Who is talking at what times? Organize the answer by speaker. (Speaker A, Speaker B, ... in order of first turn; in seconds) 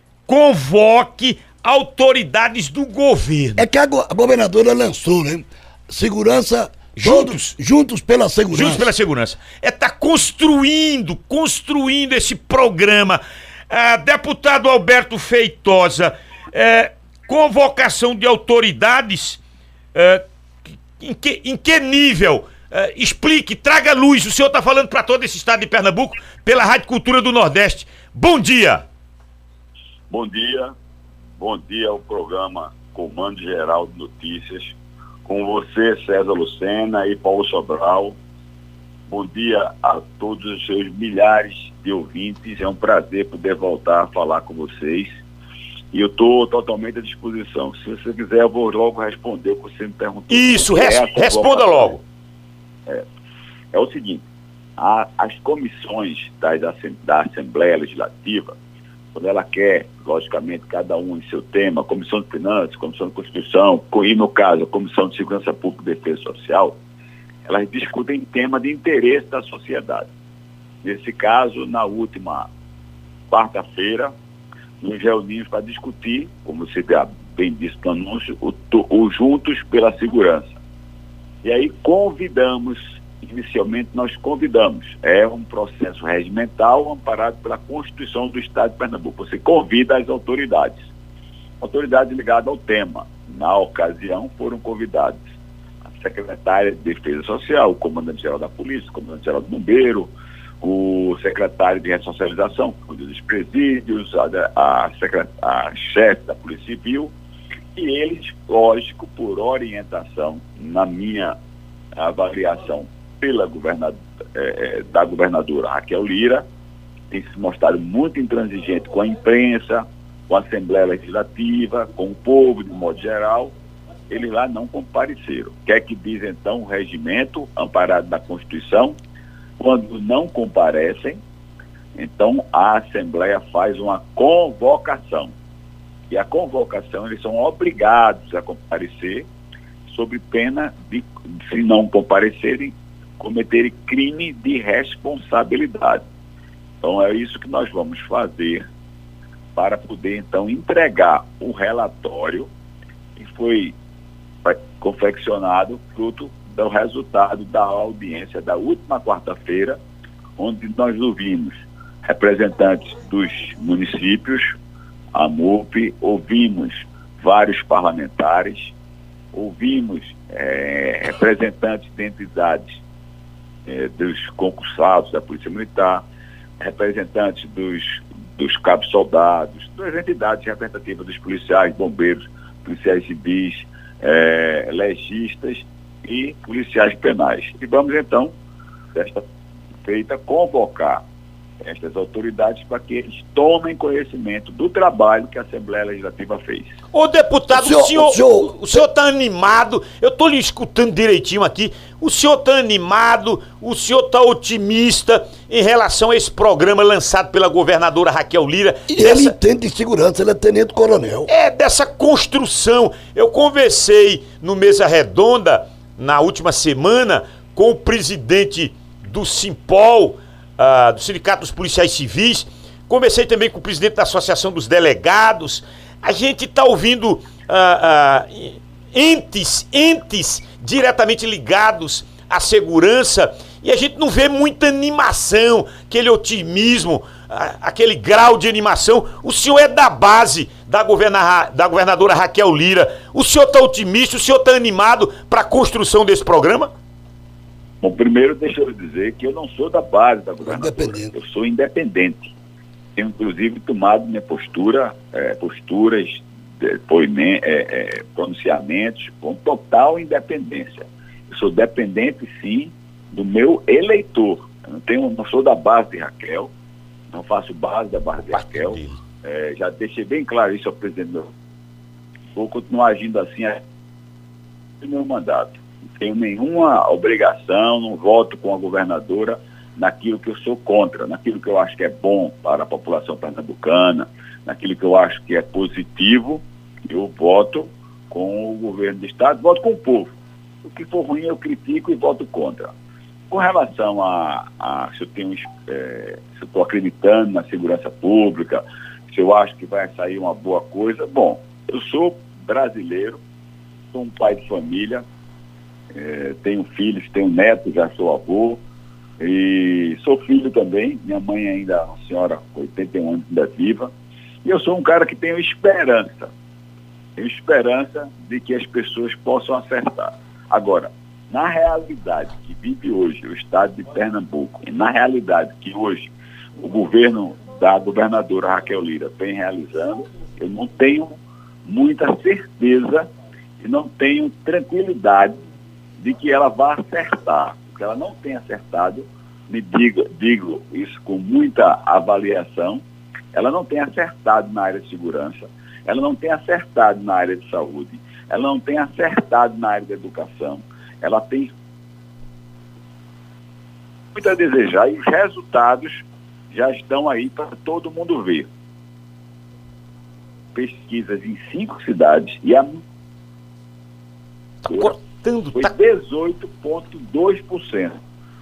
Speaker A: 0.3-3.6, 7.0-7.5, 8.5-19.4, 19.9-20.2, 21.0-28.8, 50.3-52.0, 196.9-209.3, 211.3-246.7, 268.3-269.0, 364.6-365.7
Speaker B: 3.6-8.9, 197.5-198.8, 208.9-211.3, 250.4-251.1
Speaker C: 30.1-30.7, 31.4-38.2, 39.1-45.2, 45.9-52.0, 53.7-54.2, 54.8-58.5, 59.1-66.8, 67.5-70.1, 70.8-72.5, 73.3-74.1, 74.8-80.6, 81.4-90.8, 91.6-95.2, 95.9-107.1, 107.7-111.3, 112.0-116.5, 117.1-123.5, 124.1-128.9, 129.6-131.2, 131.9-135.3, 136.1-139.3, 139.9-146.0, 146.8-148.6, 149.6-152.5, 153.2-153.8, 154.4-159.8, 160.4-164.5, 165.1-168.7, 169.3-172.8, 173.7-176.1, 176.6-188.3, 188.9-189.2, 189.8-191.0, 191.6-196.7, 247.8-252.3, 252.9-266.5, 267.1-271.3, 272.3-273.6, 274.8-292.7, 293.3-303.2, 303.9-305.0, 305.9-308.6, 309.2-313.9, 314.4-316.3, 317.1-335.4, 336.0-351.5, 354.1-358.5, 360.5-362.8, 364.7-365.0, 365.5-367.9